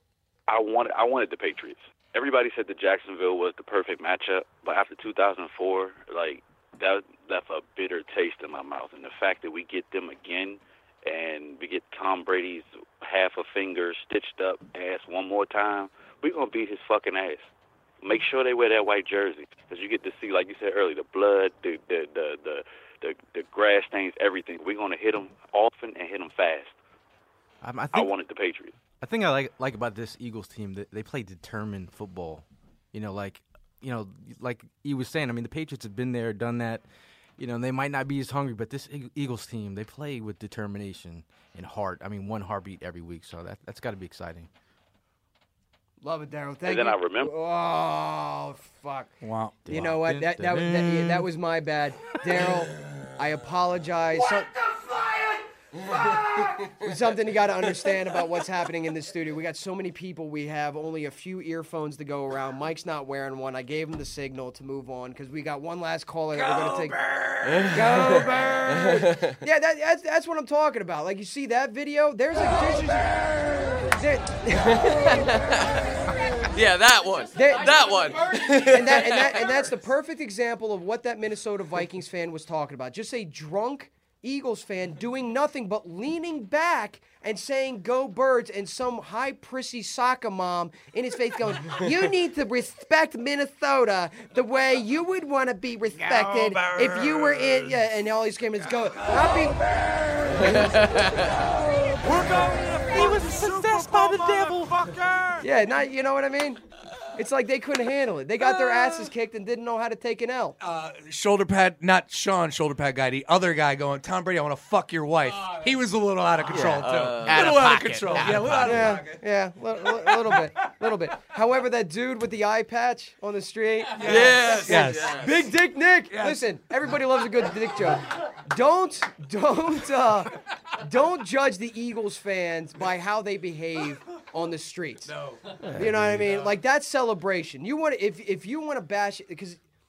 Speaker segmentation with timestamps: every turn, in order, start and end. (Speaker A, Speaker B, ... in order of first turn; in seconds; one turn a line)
Speaker A: 0.5-17.5
Speaker A: 18.0-26.8
Speaker B: 27.6-28.1
Speaker A: 27.9-28.8
Speaker B: 29.0-36.8
Speaker B: 37.4-44.5
Speaker C: 46.0-49.2
Speaker A: 46.6-47.3
Speaker D: 49.2-49.6
Speaker B: 49.6-51.3
Speaker C: 49.7-54.5
Speaker E: 55.9-56.9
Speaker C: 56.8-67.0
Speaker D: 66.3-67.5
Speaker E: 67.4-69.4
Speaker C: 67.7-75.2
Speaker E: 74.6-75.8
Speaker E: 76.5-79.7
Speaker C: 77.3-99.6
Speaker D: 96.1-97.5
Speaker D: 98.8-99.2
Speaker F: 100.2-100.5
Speaker E: 100.3-101.3
Speaker C: 100.5-100.9
Speaker F: 102.0-105.5
Speaker B: 102.9-104.8
Speaker C: 105.4-106.6
Speaker C: 107.2-110.6
Speaker D: 110.6-119.2
Speaker B: 116.5-119.0
Speaker E: 116.8-117.7
Speaker C: 118.6-135.1
Speaker D: 124.0-125.2
Speaker E: 124.0-125.5
Speaker D: 126.1-126.4
Speaker D: 135.1-135.4
Speaker B: 135.8-136.4
Speaker C: 135.8-139.6